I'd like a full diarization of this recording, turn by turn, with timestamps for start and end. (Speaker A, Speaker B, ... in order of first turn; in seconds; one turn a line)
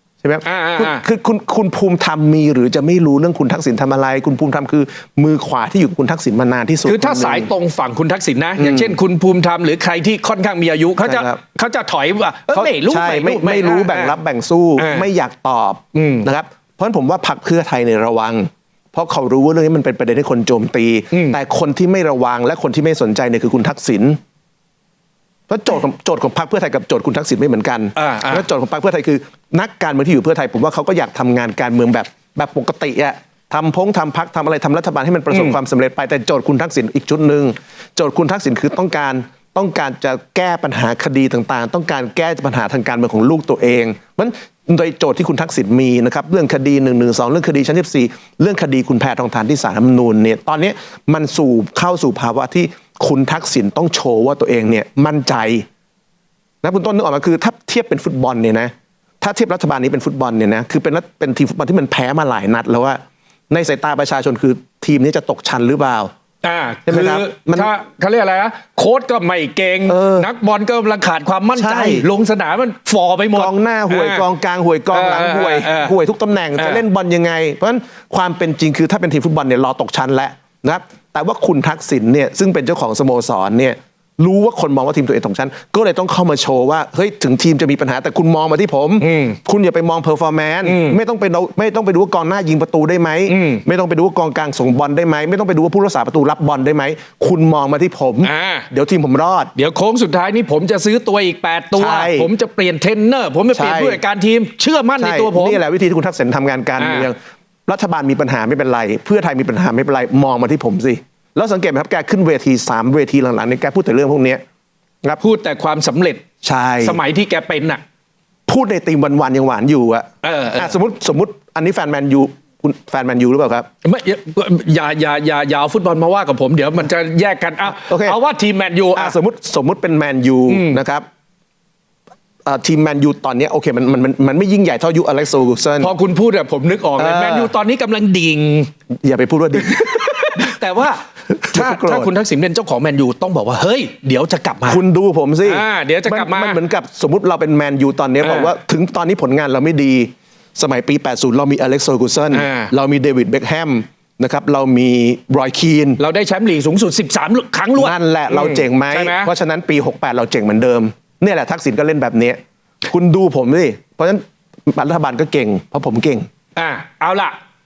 Speaker A: 0.2-7.5
Speaker B: 0.4-1.0
Speaker B: 6.8-14.2
Speaker A: 8.6-9.0
Speaker A: 11.0-11.4
Speaker A: 12.5-24.2
Speaker B: 14.8-15.1
Speaker B: 15.9-16.3
Speaker B: 21.1-21.4
Speaker A: 25.5-55.6
Speaker B: 27.9-28.5
Speaker B: 35.3-35.6
Speaker A: 56.6-66.1
Speaker B: 66.4-74.3
Speaker A: 66.9-67.7
Speaker A: 69.9-70.3
Speaker A: 71.6-72.1
Speaker A: 73.3-99.5
Speaker B: 74.9-76.0
Speaker B: 76.6-76.8
Speaker B: 89.0-89.4
Speaker B: 90.7-91.0
Speaker B: 93.3-93.6
Speaker B: 98.2-98.7
Speaker B: 99.5-105.6
Speaker A: 101.8-102.3
Speaker A: 103.5-104.0
Speaker A: 105.0-114.4
Speaker B: 106.8-107.1
Speaker B: 115.2-116.2
Speaker A: 116.4-117.0
Speaker B: 116.8-117.8
Speaker A: 118.5-123.7
Speaker B: 120.2-120.8
Speaker B: 123.8-129.2
Speaker A: 127.7-128.2
Speaker A: 128.9-131.1
Speaker B: 130.5-130.8
Speaker A: 132.4-135.9
Speaker B: 135.8-138.7
Speaker A: 137.0-137.5
Speaker A: 139.0-140.5
Speaker B: 139.6-144.8
Speaker A: 141.3-142.1
Speaker A: 144.7-156.0
Speaker B: 145.4-146.6
Speaker B: 148.2-148.5
Speaker B: 152.3-152.7
Speaker B: 156.0-159.3
Speaker A: 157.8-166.3
Speaker B: 166.6-167.4